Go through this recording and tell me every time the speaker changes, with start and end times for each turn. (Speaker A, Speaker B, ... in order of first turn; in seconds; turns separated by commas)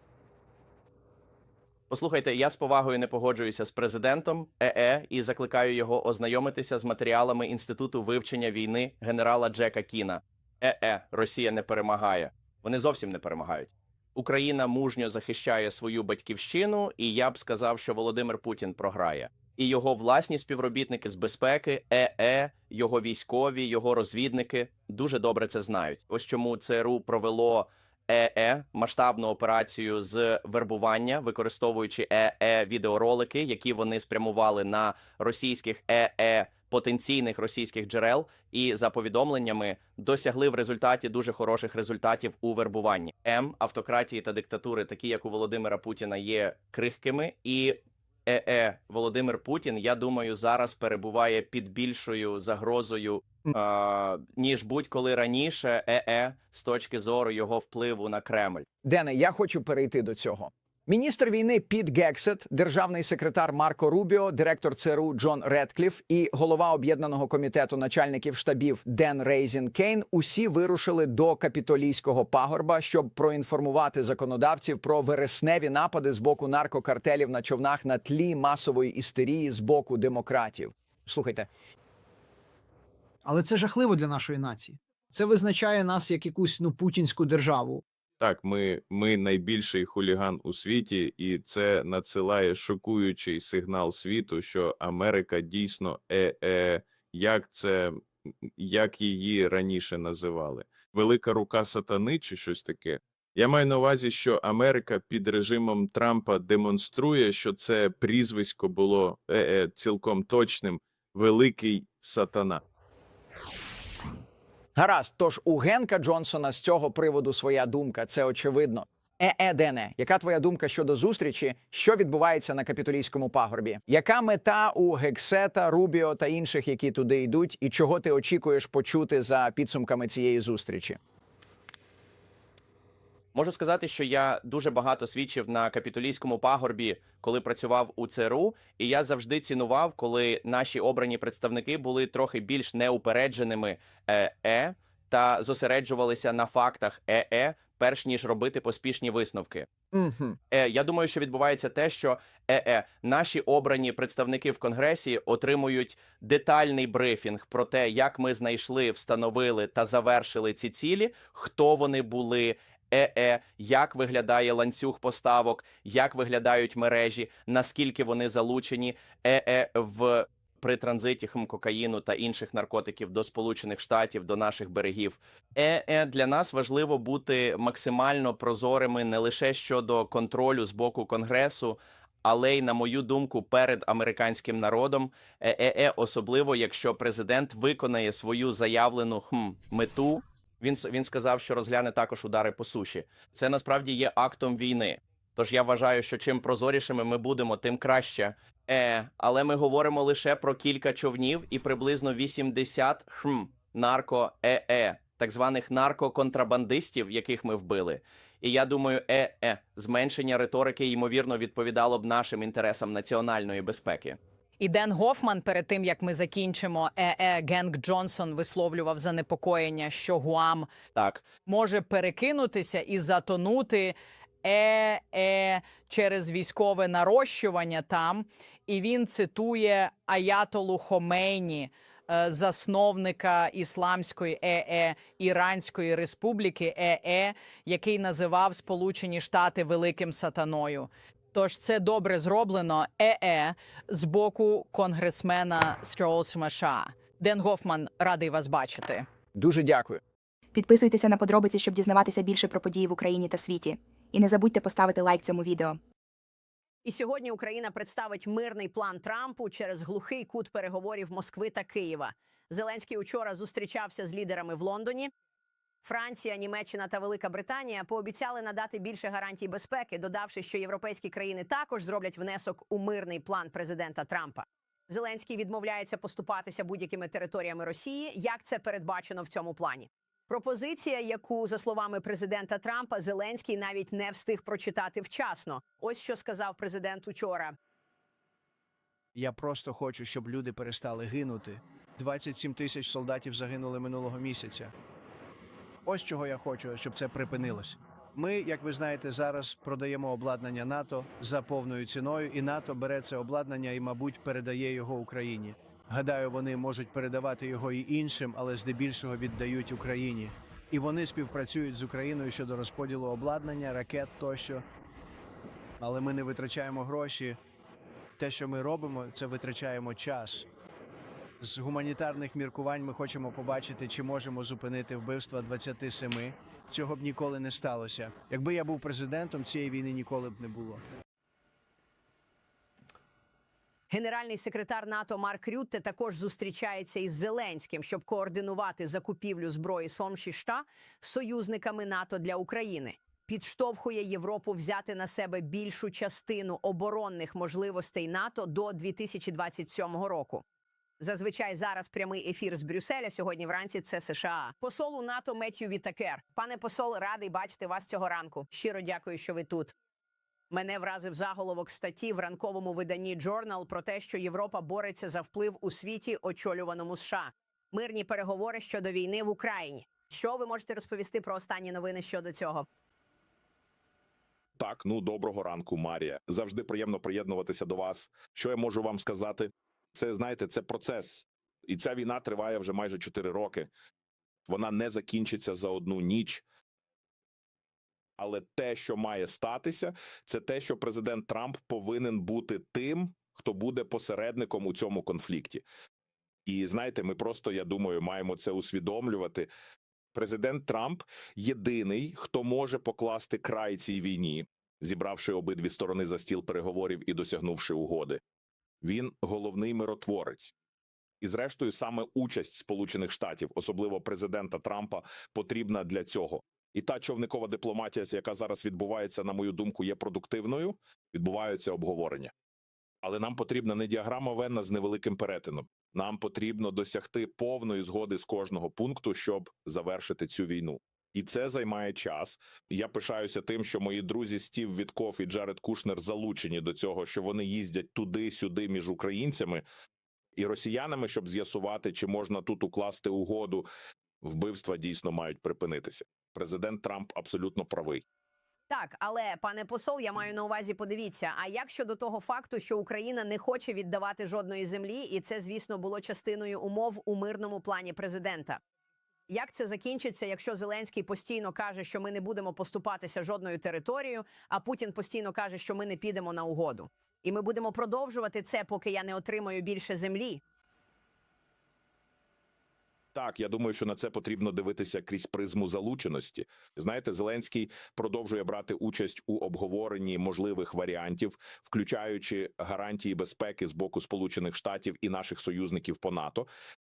Speaker A: 1.9-58.6, Speaker B: 58.8-81.5, Speaker C: 83.2-87.8, Speaker D: 88.2-112.6, Speaker B: 114.8-131.0, Speaker A: 133.3-149.7, Speaker B: 149.9-150.4, Speaker A: 150.5-214.2, Speaker E: 214.6-220.7, Speaker A: 220.9-221.3, Speaker E: 221.4-249.0, Speaker B: 249.3-250.0, Speaker F: 250.5-255.8, Speaker G: 256.8-265.1, Speaker G: 265.8-287.5, Speaker H: 289.1-294.7, Speaker H: 295.8-314.6, Speaker H: 315.8-317.4, Speaker H: 318.2-320.4, Speaker H: 321.4-330.8, Speaker G: 333.9-350.4, Speaker G: 351.0-359.7, Speaker G: 360.5-372.6, Speaker I: 374.6-383.7, Speaker I: 384.5-386.4, Speaker I: 388.2-395.6, Speaker I: 396.4-399.5, Speaker I: 400.1-408.2, Speaker I: 408.8-410.5, Speaker I: 411.2-422.3, Speaker I: 423.0-439.6, Speaker I: 440.4-443.7, Speaker I: 444.2-448.0, Speaker G: 448.7-458.6, Speaker G: 459.3-470.4, Speaker I: 473.1-486.5